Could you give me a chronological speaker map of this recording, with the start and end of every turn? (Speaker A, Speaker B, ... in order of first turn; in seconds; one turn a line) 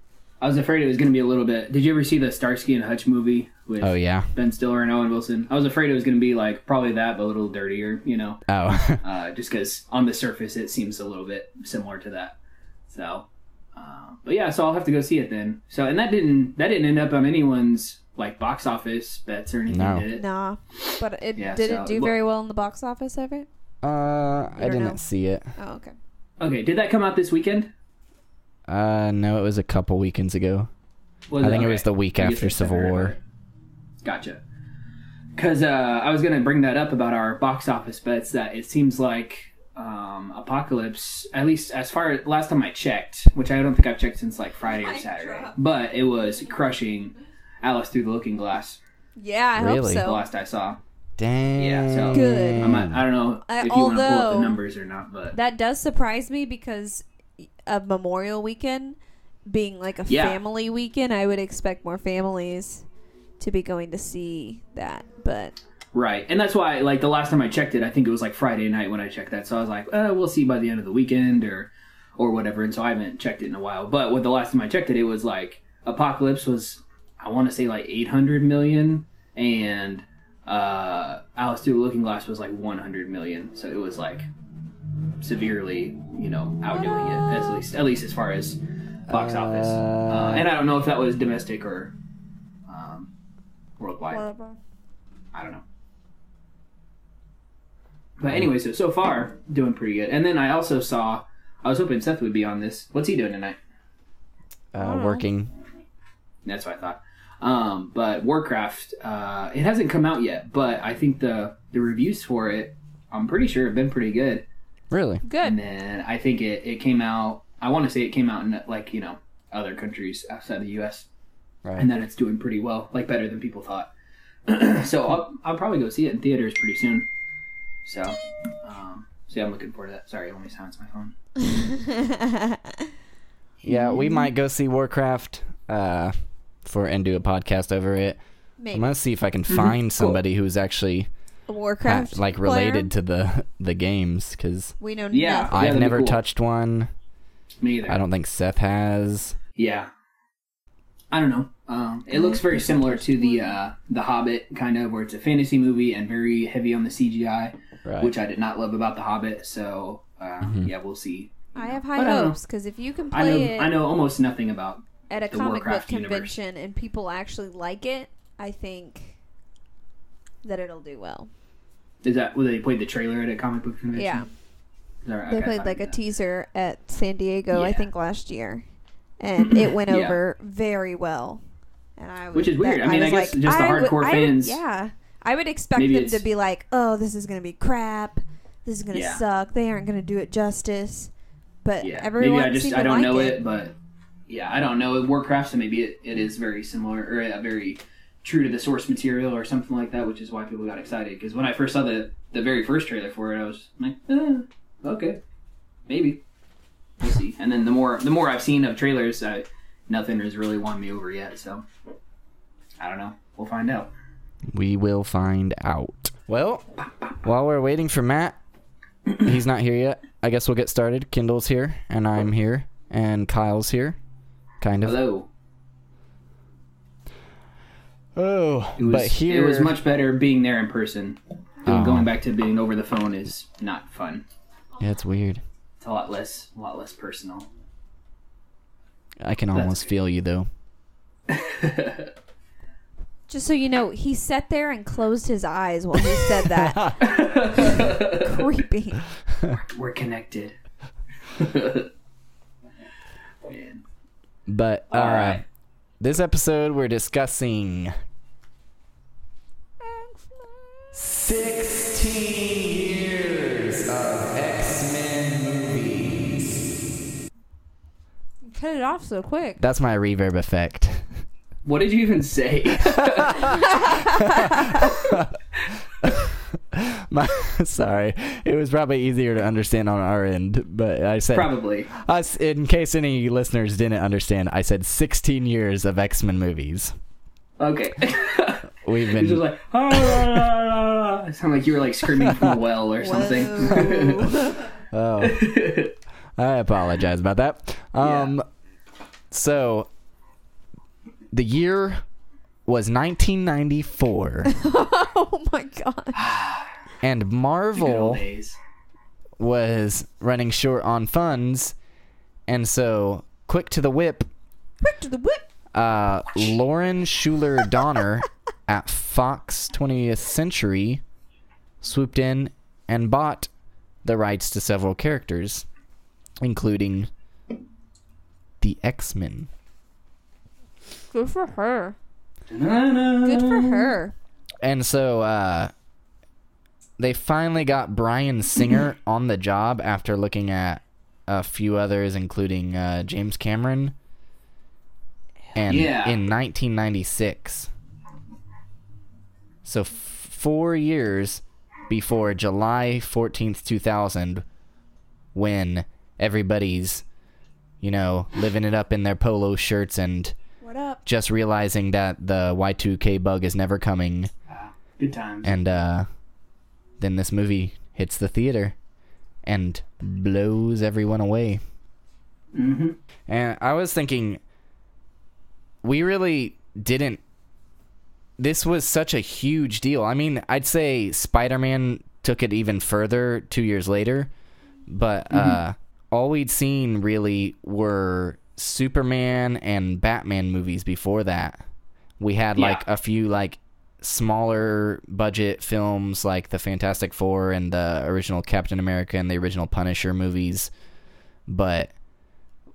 Speaker A: 0.4-8.4
Speaker B: 3.8-4.3
Speaker B: 8.5-9.0
Speaker A: 9.0-12.3
Speaker A: 12.9-20.2
Speaker B: 19.7-20.1
Speaker C: 20.1-23.5
Speaker A: 21.4-22.1
Speaker B: 23.8-25.5
Speaker C: 24.6-25.0
Speaker C: 25.6-25.9
Speaker A: 26.4-27.7
Speaker B: 28.7-30.7
Speaker A: 31.3-33.2
Speaker B: 31.4-33.1
Speaker A: 34.0-34.4
Speaker A: 35.4-48.8
Speaker C: 44.6-45.5
Speaker C: 49.2-50.2
Speaker B: 49.5-50.0
Speaker A: 50.0-50.8
Speaker B: 51.2-53.0
Speaker A: 51.6-55.4
Speaker C: 52.1-52.8
Speaker C: 53.5-54.6
Speaker C: 55.3-57.0
Speaker C: 57.6-62.8
Speaker A: 60.1-60.4
Speaker C: 63.4-65.5
Speaker A: 65.9-84.2
Speaker A: 85.2-91.9
Speaker C: 86.7-87.6
Speaker B: 89.1-90.5
Speaker A: 92.7-93.1
Speaker A: 93.8-94.2
Speaker C: 94.1-94.6
Speaker A: 95.3-95.6
Speaker A: 98.2-103.6
Speaker B: 104.7-105.5
Speaker C: 104.8-105.2
Speaker A: 106.4-114.4
Speaker B: 114.9-115.2
Speaker C: 115.2-115.6
Speaker A: 115.4-121.1
Speaker B: 121.6-121.9
Speaker A: 121.8-123.9
Speaker A: 124.5-127.1
Speaker A: 127.8-131.1
Speaker C: 131.4-132.8
Speaker B: 133.6-136.1
Speaker C: 133.7-134.3
Speaker B: 136.6-138.2
Speaker C: 138.6-138.9
Speaker B: 138.7-141.1
Speaker A: 139.5-140.2
Speaker C: 141.5-142.9
Speaker B: 141.8-144.7
Speaker C: 144.8-145.6
Speaker A: 145.1-146.2
Speaker B: 145.5-146.9
Speaker A: 147.6-148.0
Speaker B: 147.9-149.3
Speaker A: 149.6-149.9
Speaker A: 151.1-162.4
Speaker C: 152.1-153.6
Speaker B: 157.8-158.1
Speaker B: 160.4-160.7
Speaker C: 161.5-163.7
Speaker A: 163.1-166.3
Speaker C: 165.1-169.2
Speaker C: 170.4-171.3
Speaker A: 172.0-174.3
Speaker C: 173.9-174.3
Speaker A: 175.0-176.0
Speaker C: 175.3-178.6
Speaker A: 177.5-177.9
Speaker C: 179.2-181.4
Speaker A: 179.4-180.2
Speaker C: 182.0-191.1
Speaker A: 182.3-184.6
Speaker A: 185.8-186.2
Speaker A: 188.9-189.2
Speaker C: 191.6-193.4
Speaker A: 191.8-193.7
Speaker A: 194.3-205.2
Speaker A: 205.9-206.2
Speaker A: 207.0-211.6
Speaker A: 212.8-213.9
Speaker B: 214.5-216.7
Speaker B: 217.2-218.4
Speaker B: 219.2-224.0
Speaker B: 224.6-225.0
Speaker A: 224.8-225.3
Speaker B: 228.1-229.7
Speaker A: 228.8-234.2
Speaker B: 231.6-232.1
Speaker B: 234.8-235.4
Speaker A: 235.8-237.5
Speaker B: 239.2-240.5
Speaker A: 239.5-239.9
Speaker A: 241.3-242.1
Speaker C: 243.3-249.0
Speaker B: 246.6-246.9
Speaker A: 247.0-248.4
Speaker A: 249.7-250.5
Speaker A: 251.3-251.9
Speaker A: 253.4-253.8
Speaker B: 254.5-255.4
Speaker A: 254.9-255.4
Speaker B: 256.0-257.9
Speaker C: 259.8-261.0
Speaker B: 260.9-266.6
Speaker C: 268.4-269.6
Speaker B: 269.6-271.1
Speaker A: 271.6-273.6
Speaker B: 272.9-275.4
Speaker C: 273.8-274.6
Speaker A: 274.8-275.1
Speaker B: 276.0-286.9
Speaker A: 281.3-281.9
Speaker A: 287.6-294.4
Speaker B: 288.8-290.4
Speaker B: 292.2-292.5
Speaker C: 293.0-294.7
Speaker B: 293.7-295.4
Speaker A: 295.2-295.9
Speaker B: 296.4-298.4
Speaker A: 298.0-298.3
Speaker B: 299.3-299.9
Speaker B: 301.3-302.0
Speaker B: 302.6-304.5
Speaker C: 304.4-306.3
Speaker A: 306.1-306.7
Speaker B: 307.0-308.2
Speaker A: 307.7-308.6
Speaker B: 309.4-311.7
Speaker B: 312.5-314.3
Speaker C: 314.8-315.4
Speaker B: 315.7-321.0
Speaker B: 321.8-323.5
Speaker B: 324.0-325.6
Speaker B: 326.4-327.1
Speaker B: 328.6-329.5
Speaker C: 331.1-331.9
Speaker A: 332.5-334.0
Speaker C: 333.2-334.1
Speaker B: 334.6-335.7
Speaker B: 337.0-343.9
Speaker B: 345.5-347.7
Speaker A: 345.7-346.2
Speaker B: 349.6-354.4
Speaker B: 355.3-357.0
Speaker B: 357.8-360.3
Speaker C: 360.6-361.0
Speaker B: 361.1-364.3
Speaker A: 364.5-365.6
Speaker B: 365.4-366.1
Speaker B: 367.0-368.7
Speaker B: 369.4-371.6
Speaker A: 372.5-373.0
Speaker B: 373.3-374.4
Speaker B: 375.8-377.2
Speaker B: 378.4-384.3
Speaker B: 384.9-391.6
Speaker A: 385.3-385.6
Speaker B: 392.2-400.7
Speaker A: 392.6-392.8
Speaker B: 401.5-401.9